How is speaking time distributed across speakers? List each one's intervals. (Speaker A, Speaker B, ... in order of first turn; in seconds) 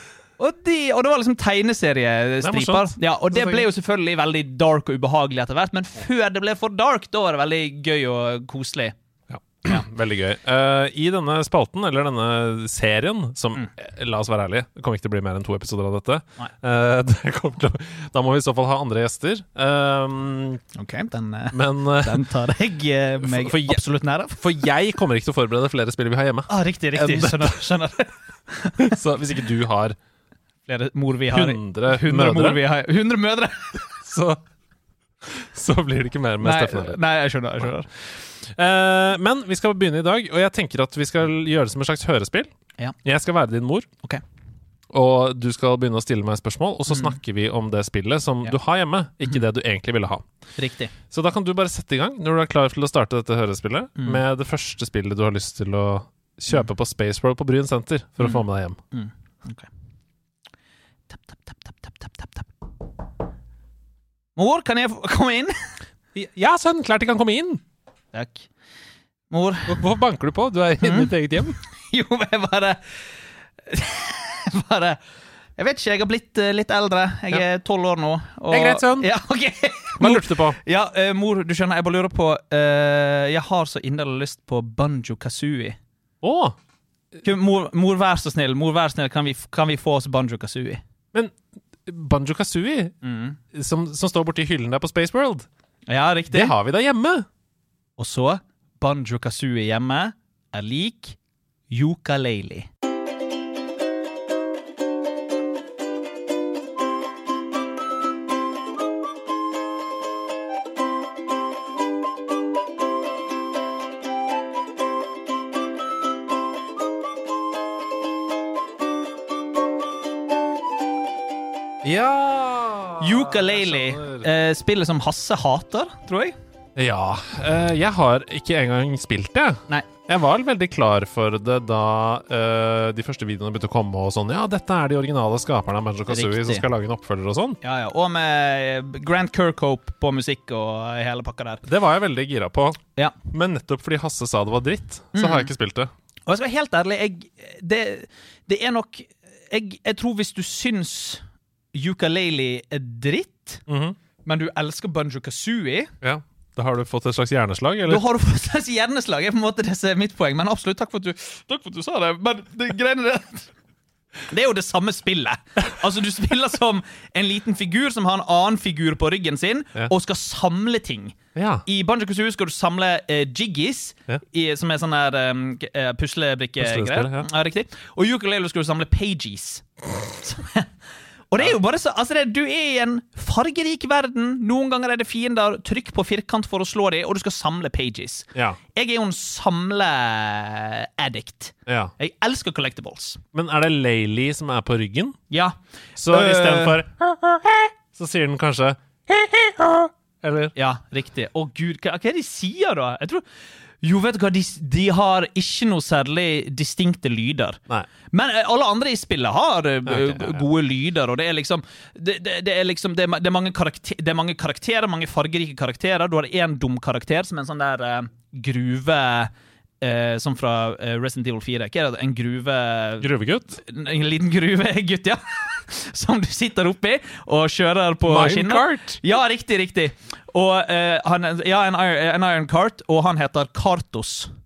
Speaker A: 0.4-8.9, 20.8-24.4, 26.5-29.0, 30.7-34.0, 36.4-37.9, 46.9-47.2, 50.6-50.9, 58.2-59.7, 61.1-62.5, 64.4-65.6, 68.1-68.5, 69.3-69.8, 70.8-71.1, 71.7-72.9, 73.7-75.0, 75.6-85.8, 87.2-90.8, 93.0-93.4, 95.9-96.5, 98.0-101.2, 101.7-102.7, 123.0-126.3, 136.1-136.7, 137.6-141.6, 145.2-145.5, 146.3-151.2, 151.7-153.6, 154.2-155.9, 157.9-163.5, 164.3-180.7, 181.3-193.2, 196.1-196.8, 200.6-203.2, 203.8-223.1, 223.6-234.3
Speaker B: 2.4-3.7, 9.3-20.6, 21.5-22.2, 23.2-23.8, 24.4-27.6, 28.8-30.0, 31.3-32.6, 34.0-34.4, 35.2-37.0, 38.4-42.5, 43.0-43.9, 44.9-50.2, 51.1-58.8, 66.2-67.6, 69.7-71.6, 78.5-79.1, 80.0-80.6, 86.2-86.6, 91.9-93.0, 93.5-95.5, 96.3-97.3, 121.8-124.3, 126.8-137.6, 141.7-145.9, 153.7-154.0, 156.0-158.1, 171.3-171.7, 176.6-177.3, 191.7-191.9, 193.3-195.2, 196.0-200.5, 209.9-210.4, 223.0-223.6, 228.1-229.0